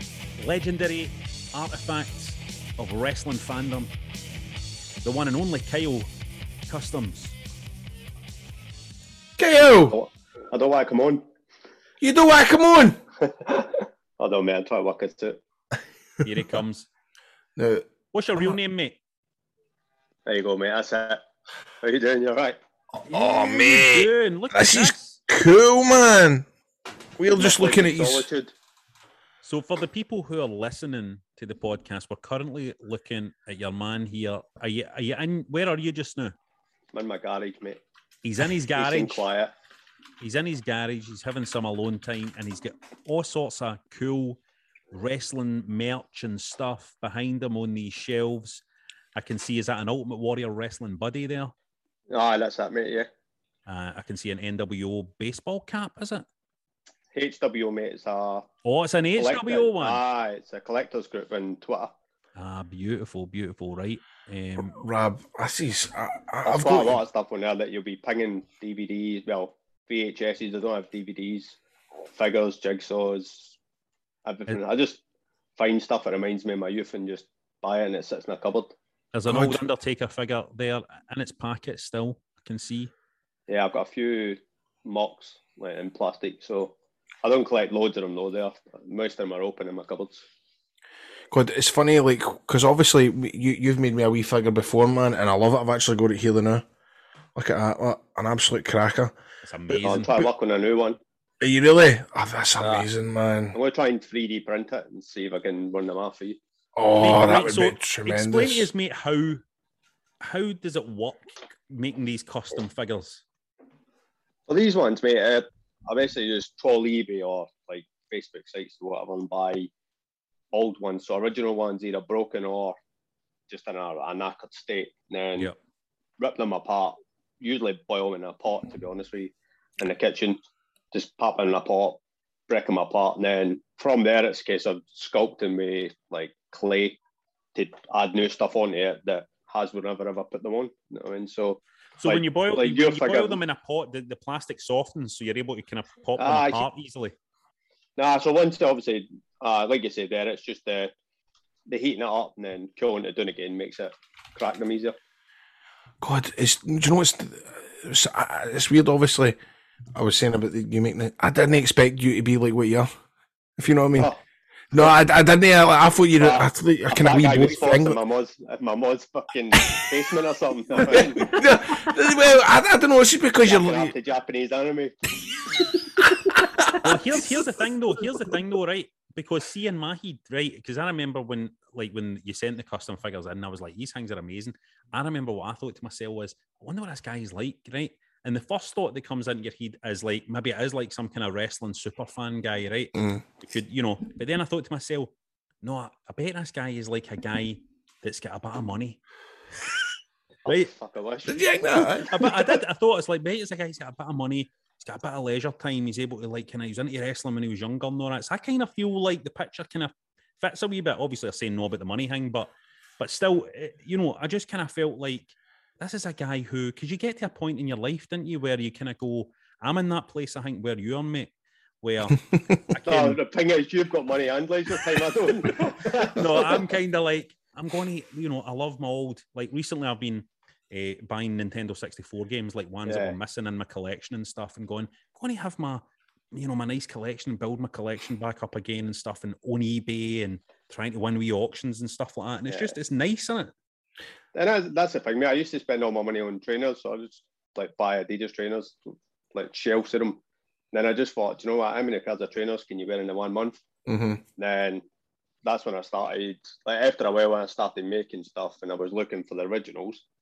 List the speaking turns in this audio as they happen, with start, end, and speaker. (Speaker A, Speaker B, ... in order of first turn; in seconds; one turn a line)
Speaker A: 0.4-3.9
Speaker A: 5.0-6.1
Speaker A: 6.7-7.3
Speaker B: 9.4-10.0
Speaker C: 9.9-11.2
Speaker B: 12.0-13.0
Speaker C: 13.2-15.4
Speaker A: 16.2-16.9
Speaker B: 17.6-17.9
Speaker A: 18.1-19.0
Speaker C: 20.3-21.2
Speaker C: 21.8-22.6
Speaker B: 23.1-26.5
Speaker A: 23.1-25.2
Speaker B: 27.2-28.3
Speaker C: 27.3-28.5
Speaker A: 29.4-36.3
Speaker C: 36.9-37.8
Speaker A: 38.2-39.2
Speaker C: 38.7-39.5
Speaker A: 40.2-44.4
Speaker A: 44.9-48.6
Speaker A: 49.1-51.5
Speaker C: 52.1-53.1
Speaker A: 53.7-56.2
Speaker C: 57.1-58.5
Speaker A: 58.6-60.0
Speaker C: 59.1-61.9
Speaker A: 62.4-64.8
Speaker B: 64.7-67.0
Speaker C: 66.4-71.6
Speaker C: 72.1-73.6
Speaker C: 74.2-75.0
Speaker C: 75.6-78.7
Speaker A: 79.1-82.9
Speaker B: 79.3-79.6
Speaker C: 83.5-90.2
Speaker B: 91.3-96.6
Speaker B: 97.3-99.1
Speaker A: 99.4-100.2
Speaker C: 99.8-101.0
Speaker B: 101.4-103.6
Speaker C: 102.6-102.8
Speaker C: 103.5-106.4
Speaker B: 106.7-108.7
Speaker A: 107.0-109.4
Speaker A: 110.2-113.2
Speaker C: 114.5-119.7
Speaker C: 120.5-122.8
Speaker C: 123.5-125.5
Speaker C: 126.2-130.4
Speaker C: 130.9-137.0
Speaker C: 137.5-143.4
Speaker A: 142.0-147.1
Speaker C: 146.2-146.7
Speaker C: 148.0-150.9
Speaker C: 151.7-155.0
Speaker B: 156.0-159.4
Speaker B: 159.9-162.9
Speaker B: 163.6-164.1
Speaker C: 163.9-164.2
Speaker B: 164.7-168.0
Speaker C: 166.2-171.4
Speaker B: 170.9-173.9
Speaker C: 173.4-174.9
Speaker A: 176.7-195.1
Speaker B: 192.9-193.2
Speaker A: 195.6-199.0
Speaker C: 200.4-201.4
Speaker B: 201.3-202.6
Speaker A: 202.1-221.3
Speaker A: 221.8-223.2
Speaker C: 222.8-226.6
Speaker A: 226.1-243.5
Speaker C: 232.8-233.1
Speaker C: 242.5-242.7
Speaker C: 244.3-248.8
Speaker C: 249.3-250.2
Speaker C: 250.7-253.6
Speaker B: 253.9-254.2
Speaker C: 254.4-254.8
Speaker C: 255.4-260.0